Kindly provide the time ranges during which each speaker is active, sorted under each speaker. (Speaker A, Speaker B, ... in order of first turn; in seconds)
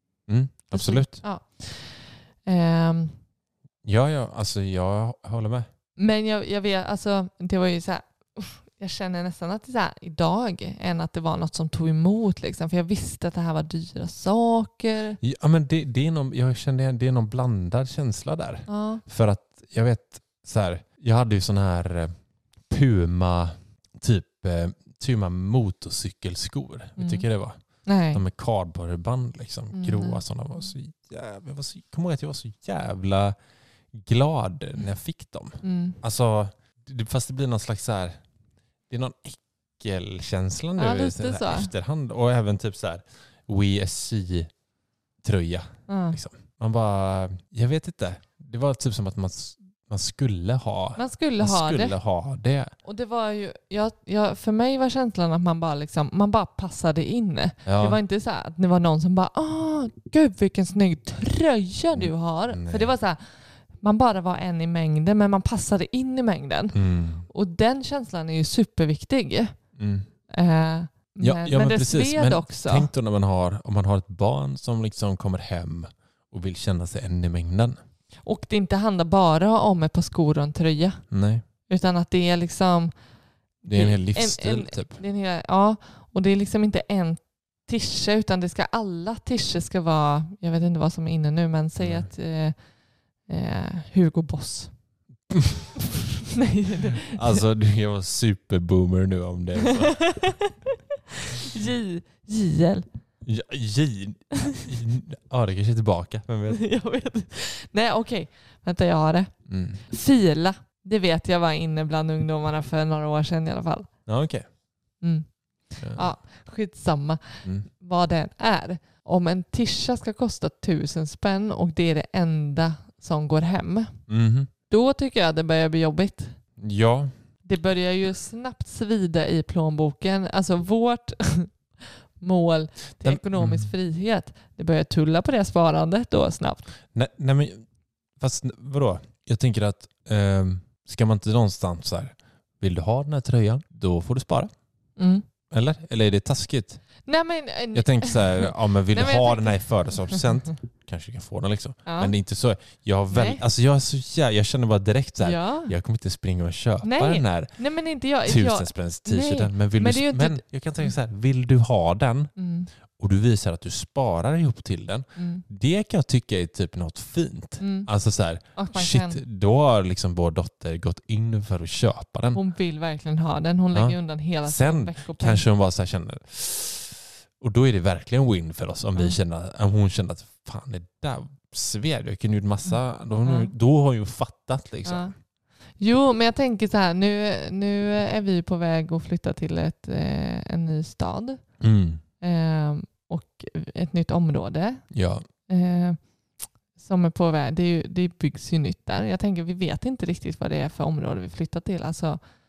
Speaker A: 0.3-1.2, 3.8-5.7, 15.2-22.1, 22.7-27.6, 28.1-33.4, 33.9-38.2, 38.9-44.5, 45.2-52.7, 57.6-58.0, 61.9-63.0, 66.7-67.3, 69.8-70.1, 71.2-77.8, 81.1-81.4, 83.6-85.0, 91.8-92.1, 95.3-95.6, 97.0-100.4, 103.2-106.6, 109.5-109.8, 114.1-114.5, 115.8-116.1, 124.1-124.5, 126.6-127.1, 133.0-133.7, 136.9-137.6, 138.2-144.5, 145.5-146.8, 147.7-157.6, 158.2-162.3, 162.9-172.4, 173.7-185.1, 191.6-192.0, 194.9-195.2
Speaker B: 0.7-3.1, 6.0-15.2, 18.7-19.0, 27.0-27.2, 27.8-28.2, 29.7-30.2, 35.6-36.0, 40.8-41.7, 45.9-46.2, 51.0-52.0, 52.8-63.2, 63.8-66.8, 67.3-69.5, 70.3-72.9, 78.2-81.0, 81.7-82.9, 83.7-92.5, 93.3-94.7, 96.4-97.4, 100.1-100.5, 101.4-102.9, 106.5-109.3, 109.8-113.9, 115.0-124.0, 124.7-126.4, 127.4-136.7, 145.0-145.2, 147.1-150.2, 151.8-152.1, 153.1-153.4, 155.2-155.7, 156.8-160.9, 162.4-162.7, 165.2-165.4, 167.6-167.9, 168.5-169.2, 172.3-175.4, 183.2-183.5, 184.8-185.1, 185.8-191.4, 192.2-194.9, 195.5-196.0, 196.8-202.2